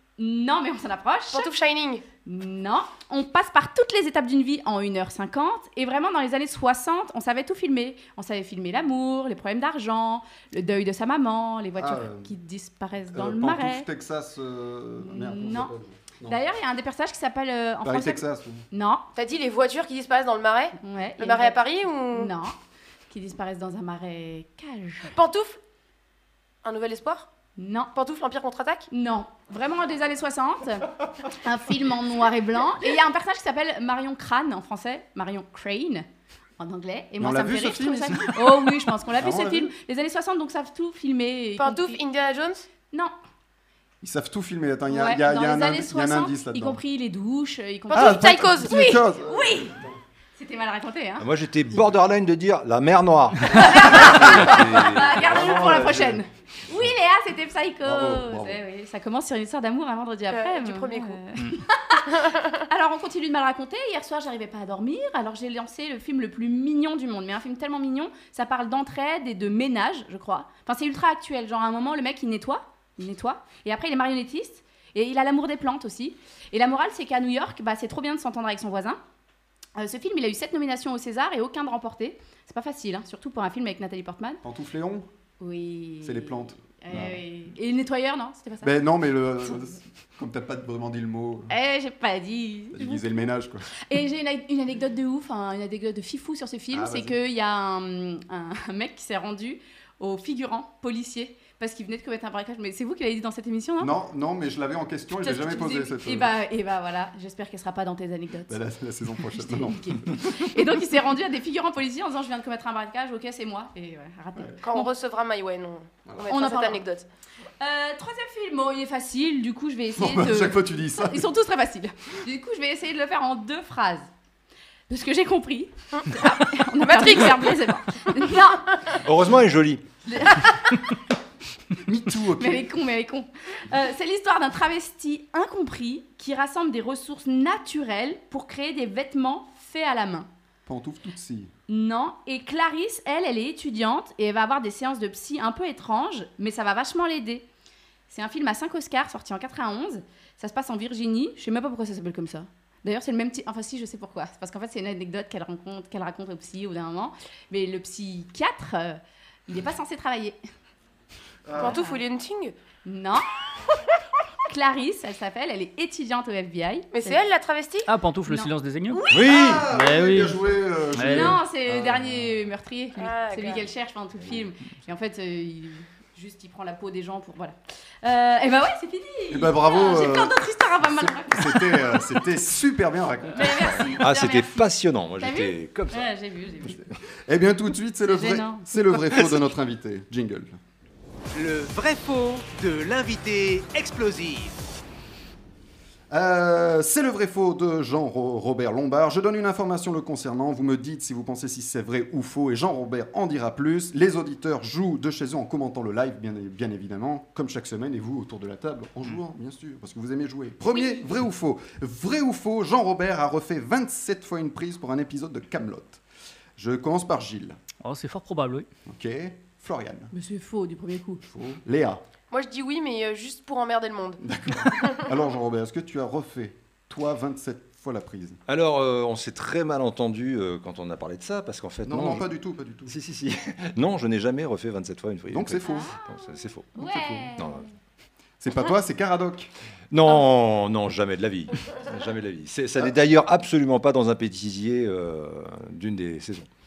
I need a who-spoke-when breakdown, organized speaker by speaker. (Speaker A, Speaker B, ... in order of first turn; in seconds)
Speaker A: 0.2-1.5, 2.2-13.9, 15.0-15.7, 16.2-19.1, 20.8-21.6, 22.1-22.6, 23.1-25.1, 27.6-27.9, 28.9-36.1, 36.6-42.0, 44.9-49.8, 50.4-51.3, 53.5-79.0, 79.8-84.4, 85.4-88.8, 91.5-93.1, 93.8-103.9, 105.2-108.6, 109.4-114.9, 116.3-116.8, 117.6-124.1, 124.9-128.8, 130.1-130.8, 132.4-140.3, 141.7-147.4, 148.1-160.4, 161.6-162.0, 162.8-163.3, 164.5-167.2, 168.3-169.2, 171.1-182.0, 183.3-186.8, 188.1-189.4, 210.7-211.0, 220.1-221.2, 235.6-236.1, 236.8-237.6
Speaker B: 1.3-2.0, 19.1-22.3, 25.1-25.6, 26.6-27.3, 27.9-28.9, 41.6-42.6, 47.9-48.7, 60.3-61.2, 62.2-62.5, 114.6-117.1, 126.8-127.5, 161.6-162.5, 166.9-167.9, 173.0-173.6, 222.3-225.0
Speaker C: 11.8-12.3, 13.1-16.4, 17.8-18.6, 37.2-38.6, 39.2-39.7, 44.0-46.8, 47.9-49.7, 55.3-56.1, 57.8-58.6, 84.4-85.1, 86.0-87.2, 88.6-91.5, 92.7-93.7, 96.7-97.2, 103.8-106.3, 108.5-110.3, 120.0-121.3, 131.8-132.7, 140.7-141.5, 161.5-161.8, 169.1-172.2, 179.3-184.0, 186.6-190.6, 196.1-216.0, 216.6-217.6, 218.9-220.1, 221.2-222.0, 224.2-228.4, 231.8-232.9, 235.3-235.7, 236.9-237.3, 238.4-239.5
Speaker D: 51.2-56.2, 129.0-129.8, 169.2-169.6, 184.0-186.1, 228.5-232.3, 232.9-237.7, 239.9-246.5
Speaker E: 167.9-169.0, 169.6-170.4, 170.9-171.4, 217.8-218.7
Speaker F: 191.3-194.6